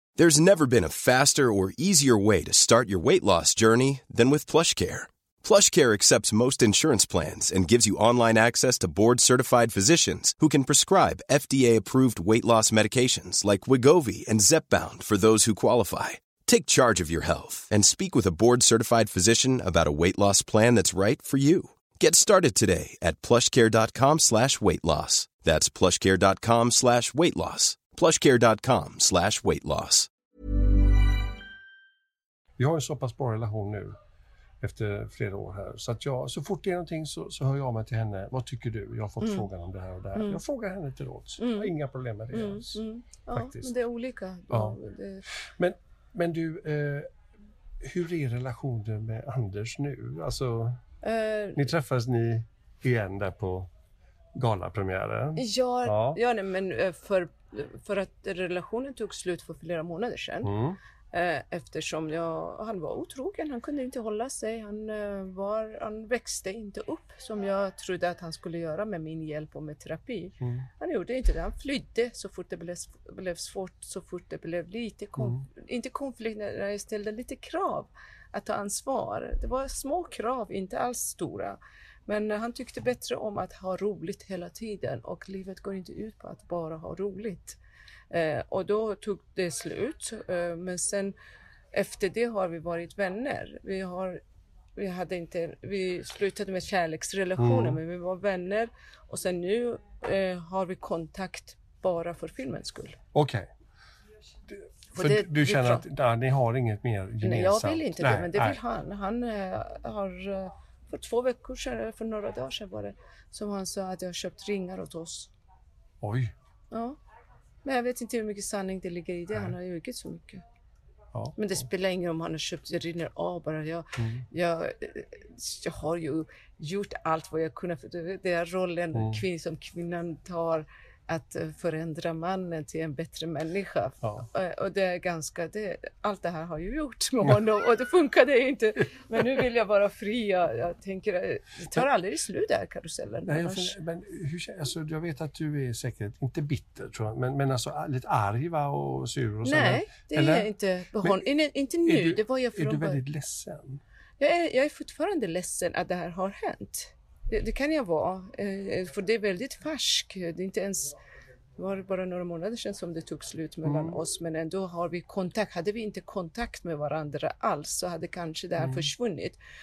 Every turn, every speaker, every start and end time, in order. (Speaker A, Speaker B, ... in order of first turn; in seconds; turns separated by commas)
Speaker A: 0.2-30.1, Speaker B: 32.6-34.0, Speaker B: 34.6-42.8, Speaker C: 39.2-39.5, Speaker C: 40.1-40.4, Speaker C: 41.4-41.7, Speaker C: 42.3-45.2, Speaker B: 43.3-43.7, Speaker B: 44.5-44.8, Speaker B: 45.5-47.1, Speaker B: 47.8-50.8, Speaker C: 51.0-51.7, Speaker B: 51.5-53.7, Speaker B: 54.3-56.2, Speaker C: 55.4-60.5, Speaker B: 60.4-60.8, Speaker C: 61.1-87.6, Speaker B: 70.4-70.7, Speaker B: 75.2-75.4, Speaker C: 88.1-91.1, Speaker C: 91.7-94.2, Speaker C: 94.8-103.0, Speaker B: 97.4-97.8, Speaker B: 103.1-103.5, Speaker B: 104.5-108.6, Speaker C: 104.9-105.8, Speaker C: 107.2-115.3, Speaker B: 116.0-116.3, Speaker C: 116.7-117.0, Speaker C: 117.6-120.4, Speaker B: 121.1-121.6, Speaker C: 121.4-143.7, Speaker B: 124.0-124.2, Speaker B: 128.9-129.2, Speaker B: 143.3-150.5, Speaker C: 149.4-153.0, Speaker B: 151.8-153.8, Speaker C: 154.2-160.9, Speaker C: 161.6-169.4, Speaker B: 163.6-164.0, Speaker B: 168.6-168.9